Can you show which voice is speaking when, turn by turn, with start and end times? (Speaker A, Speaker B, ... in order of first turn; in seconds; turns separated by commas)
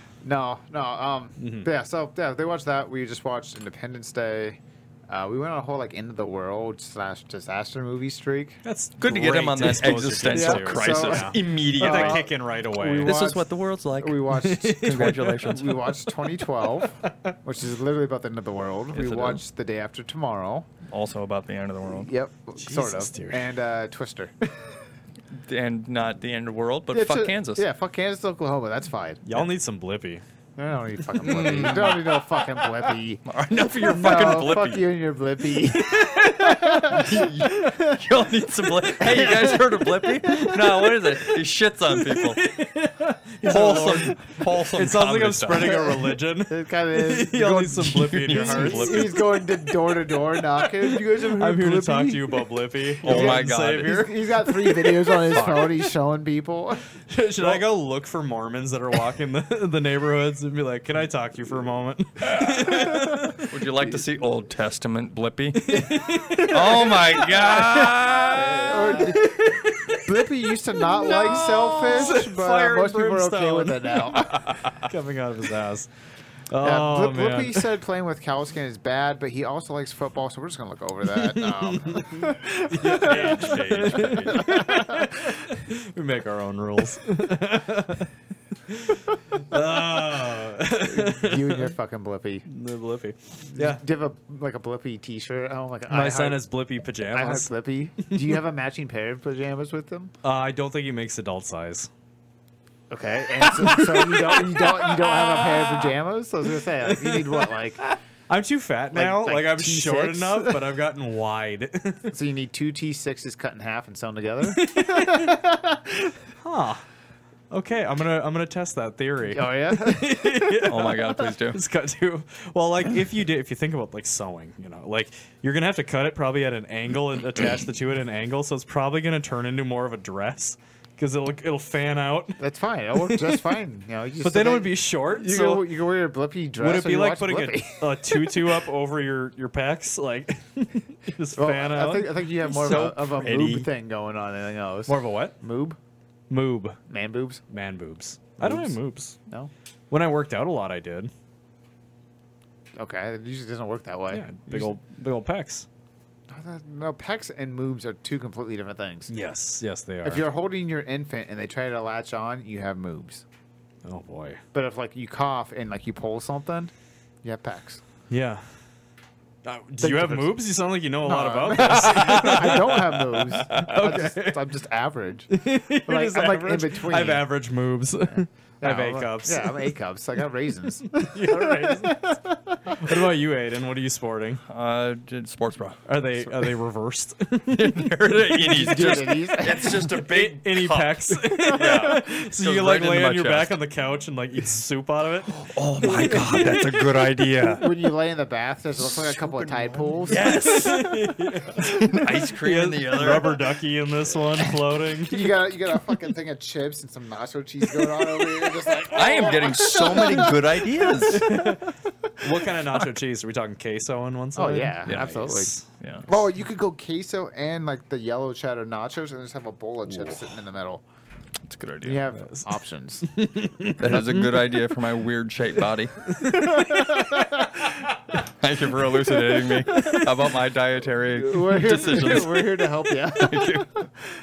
Speaker A: 0.2-8.6, Speaker B: 1.4-1.7, Speaker B: 8.6-13.3, Speaker C: 9.0-12.3, Speaker A: 10.3-20.7, Speaker C: 13.0-15.8, Speaker B: 14.3-15.6, Speaker B: 16.6-17.3, Speaker C: 18.9-19.4, Speaker C: 20.9-22.1, Speaker A: 21.9-24.3, Speaker B: 22.6-23.4, Speaker C: 25.3-27.6, Speaker A: 26.9-29.5, Speaker B: 29.2-30.2, Speaker A: 30.6-33.2, Speaker C: 31.2-32.2, Speaker C: 33.2-34.9, Speaker A: 33.8-38.0, Speaker B: 35.7-36.9, Speaker C: 36.8-42.5, Speaker A: 39.0-40.5, Speaker B: 40.3-41.3, Speaker B: 41.9-49.7, Speaker C: 43.4-45.9, Speaker A: 45.5-47.5, Speaker C: 47.3-49.4, Speaker A: 48.3-52.3, Speaker B: 50.8-55.1, Speaker C: 53.0-54.0, Speaker A: 53.0-56.9, Speaker C: 55.3-55.7, Speaker B: 57.1-63.5, Speaker C: 63.5-69.0, Speaker B: 65.5-75.9, Speaker A: 68.3-74.5, Speaker C: 71.0-72.1, Speaker C: 74.5-74.8, Speaker B: 76.5-77.7, Speaker A: 76.6-85.5, Speaker B: 81.1-88.1, Speaker B: 88.7-91.7, Speaker A: 90.8-92.5, Speaker B: 92.5-93.8, Speaker A: 93.5-96.4, Speaker B: 95.9-97.5, Speaker A: 97.1-100.1, Speaker B: 98.0-98.4, Speaker B: 100.2-101.9, Speaker A: 102.9-107.8, Speaker B: 103.4-105.9, Speaker B: 106.7-112.1, Speaker A: 108.9-110.6, Speaker A: 112.1-116.1, Speaker B: 114.5-115.3, Speaker B: 116.4-116.8, Speaker B: 117.5-132.4, Speaker A: 119.3-120.6, Speaker C: 120.6-121.6, Speaker A: 132.4-138.6, Speaker B: 133.0-133.5, Speaker B: 134.2-135.8, Speaker B: 136.6-142.1, Speaker A: 141.3-145.8, Speaker C: 142.4-143.7, Speaker B: 144.9-145.3, Speaker B: 146.3-146.8, Speaker A: 146.9-147.4, Speaker B: 147.5-149.2, Speaker A: 148.4-148.8, Speaker B: 149.9-151.1, Speaker A: 152.8-154.7, Speaker B: 154.1-155.7, Speaker A: 156.3-159.1, Speaker B: 159.1-160.2, Speaker A: 160.0-163.2, Speaker B: 163.8-164.4, Speaker A: 164.5-166.7, Speaker A: 167.2-167.8, Speaker B: 168.1-168.4, Speaker B: 169.4-174.4, Speaker A: 169.8-170.4, Speaker A: 171.0-177.3, Speaker C: 171.9-172.6, Speaker C: 173.3-173.7, Speaker B: 175.3-179.7, Speaker A: 178.6-183.1, Speaker B: 180.9-182.0, Speaker B: 182.7-184.4, Speaker C: 184.5-186.5, Speaker B: 185.9-197.2, Speaker C: 187.5-193.6, Speaker A: 188.4-189.9, Speaker A: 191.4-192.0, Speaker C: 195.3-197.7, Speaker A: 197.6-200.4, Speaker C: 198.8-199.3, Speaker C: 200.1-203.4, Speaker B: 200.1-205.3, Speaker A: 205.1-211.5, Speaker B: 207.9-208.5, Speaker C: 208.9-211.4, Speaker B: 210.9-215.6, Speaker A: 214.3-215.5, Speaker C: 214.9-215.2, Speaker C: 215.7-216.1, Speaker A: 216.1-220.8, Speaker C: 221.4-222.1, Speaker A: 221.8-223.1, Speaker B: 223.0-224.6, Speaker C: 223.8-226.1, Speaker B: 226.1-227.5, Speaker A: 226.2-227.7, Speaker C: 228.1-233.8, Speaker B: 229.2-230.2, Speaker A: 231.1-233.9, Speaker B: 231.9-232.2